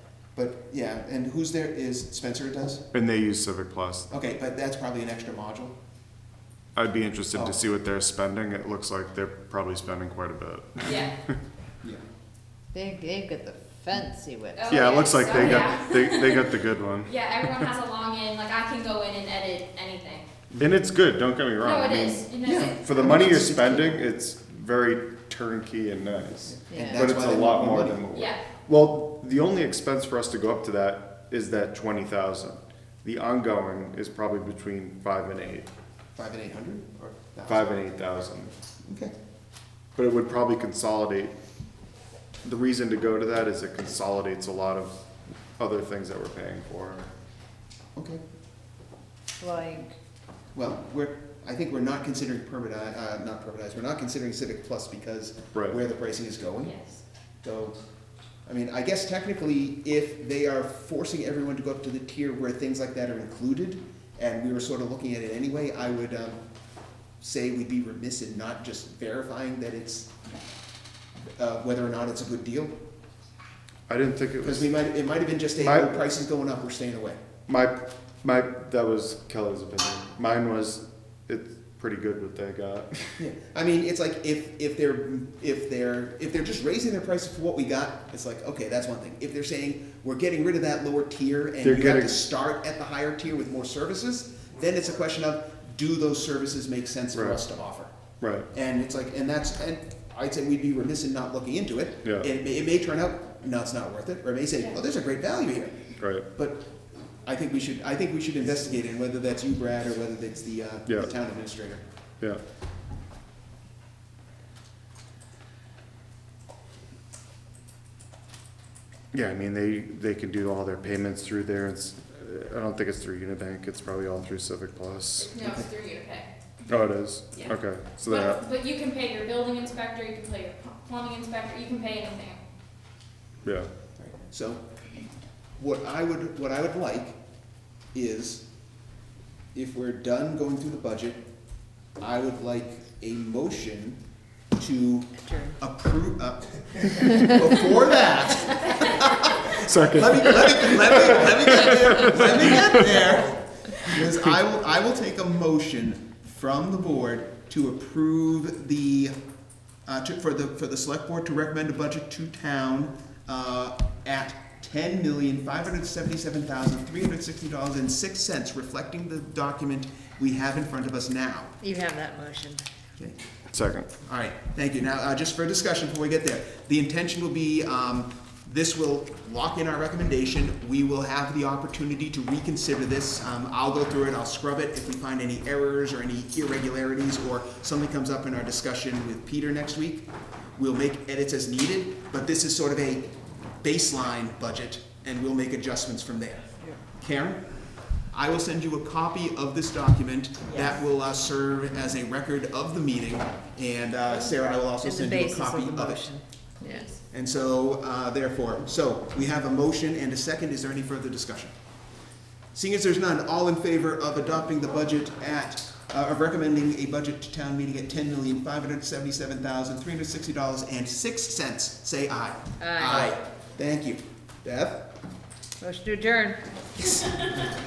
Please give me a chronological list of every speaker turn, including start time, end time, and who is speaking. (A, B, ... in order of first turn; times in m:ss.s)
0:00.4-0:02.8 A
0:02.9-0:04.1 B
0:04.1-0:05.8 A
0:06.8-0:11.3 B
0:07.3-0:07.6 A
0:10.8-0:11.1 C
0:12.7-0:15.0 D
0:14.6-0:16.5 C
0:14.7-0:17.6 B
0:17.0-0:20.3 C
0:20.5-0:35.7 B
0:21.6-0:23.0 C
0:22.4-0:24.1 A
0:26.5-0:28.0 A
0:26.7-0:27.1 D
0:28.1-0:28.4 C
0:36.2-0:37.7 A
0:37.5-0:38.5 B
0:38.8-0:39.1 A
0:40.0-0:41.3 B
0:42.4-0:44.9 B
0:45.6-0:47.1 B
0:48.0-0:48.2 A
0:49.4-0:50.0 D
0:50.6-0:56.8 A
0:55.5-0:55.8 B
0:56.6-0:57.0 C
0:57.4-0:57.8 A
0:58.5-1:06.4 A
1:07.2-1:10.1 A
1:11.4-1:12.8 A
1:13.9-1:14.7 B
1:14.4-1:17.2 A
1:15.6-1:15.9 B
1:17.5-1:23.2 B
1:23.2-1:37.9 A
1:31.6-1:32.2 B
1:37.1-1:37.4 B
1:38.2-1:38.5 B
1:38.5-1:46.7 A
1:42.0-1:42.3 B
1:46.0-1:46.3 B
1:47.2-1:51.8 A
1:50.9-1:51.1 B
1:59.1-2:05.3 B
2:05.2-2:06.3 C
2:05.4-2:05.7 A
2:06.7-2:08.4 B
2:07.4-2:12.4 C
2:14.0-2:14.7 A
2:15.6-2:17.2 A
2:17.9-2:18.4 A
2:19.5-2:21.2 A
2:22.0-2:24.0 A
2:24.6-2:39.2 A
2:29.5-2:33.1 B
2:39.9-2:51.6 A
2:51.6-2:52.6 D
2:53.5-2:53.9 B
2:54.0-3:17.4 A
3:18.1-3:26.1 A
3:24.1-3:26.9 D
3:26.7-3:27.0 C
3:27.1-3:31.5 A
3:32.5-3:44.9 A
3:42.6-3:43.2 D
3:45.6-3:46.4 D